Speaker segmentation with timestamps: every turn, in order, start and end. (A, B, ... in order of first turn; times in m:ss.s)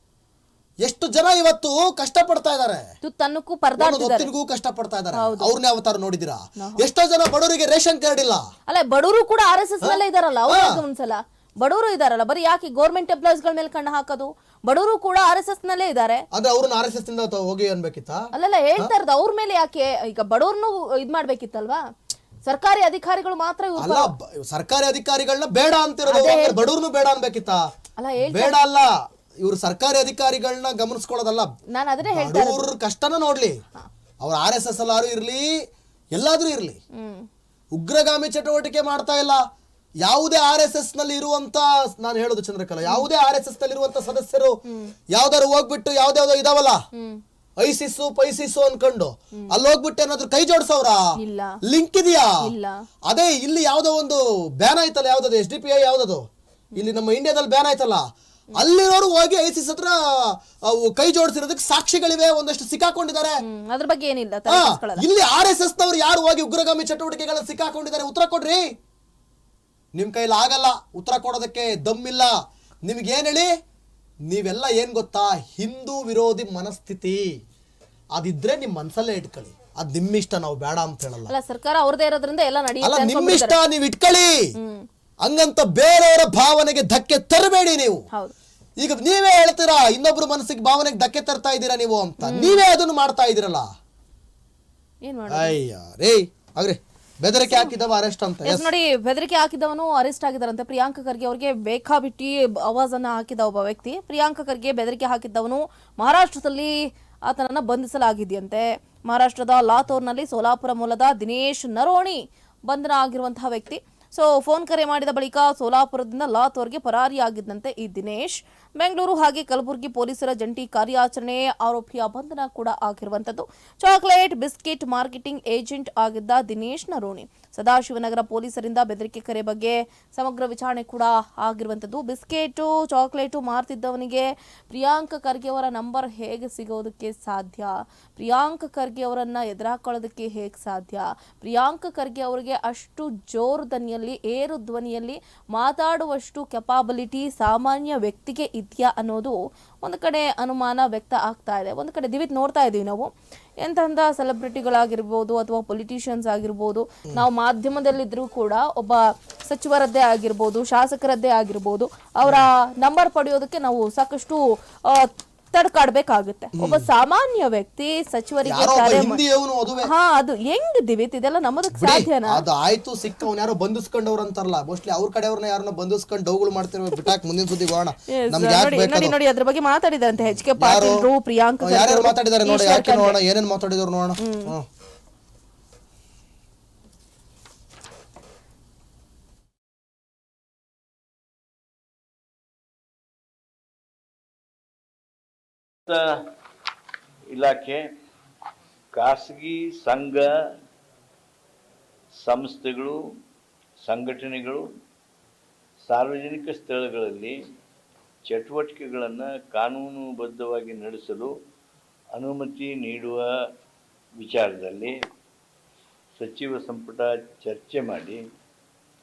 0:00.8-0:02.9 A
0:03.0-0:04.3 B
0:03.8-0:08.4 A
0:05.1-0:05.5 B
0:06.6-0:06.9 B
0:08.7-0:16.2 B
0:09.8-0:10.8 A
0:16.3-0:18.9 A
0:18.3-0:21.8 B
0:22.4-0:24.1 B
0:23.8-0:27.6 A
0:26.1-0:26.6 B
0:28.0-0:28.6 B
0:28.3-0:31.5 A
0:31.7-0:32.7 B
0:32.1-0:33.6 A
0:34.2-0:35.6 A
0:36.2-0:36.8 A
0:36.9-0:37.3 B
0:37.7-0:39.4 A
0:40.0-0:44.6 A
0:44.7-0:44.9 B
0:45.1-0:46.8 A
0:46.9-0:47.2 B
0:47.6-0:51.0 A
0:51.2-0:51.6 B
0:51.7-0:52.3 A
0:52.4-0:52.8 B
0:53.0-0:56.2 A
0:56.8-1:03.4 A
1:03.4-1:05.0 B
1:04.5-1:08.7 A
1:09.9-1:12.3 A
1:12.8-1:13.5 A
1:14.3-1:17.4 A
1:18.2-1:21.3 A
1:21.3-1:23.6 B
1:22.8-1:24.4 A
1:24.6-1:24.8 B
1:25.2-1:28.0 A
1:28.8-1:33.7 A
1:32.2-1:32.6 B
1:35.0-1:35.6 B
1:35.3-1:38.7 A
1:37.4-1:37.7 B
1:38.4-1:46.7 B
1:47.2-2:33.1 B
2:33.6-2:49.2 B
2:46.6-2:46.9 A
2:48.5-2:49.9 A
2:49.8-2:52.4 B
2:51.8-2:59.2 A
2:58.2-3:03.2 B
3:00.5-3:01.1 A
3:01.6-3:04.6 A
3:04.2-3:04.5 B
3:17.3-3:17.8 C
3:18.9-3:20.3 C
3:22.2-3:23.0 C
3:23.8-3:24.6 C
3:25.8-3:27.3 C
3:28.2-3:31.3 C
3:32.1-3:33.3 C
3:34.2-3:35.0 C
3:36.2-3:38.2 C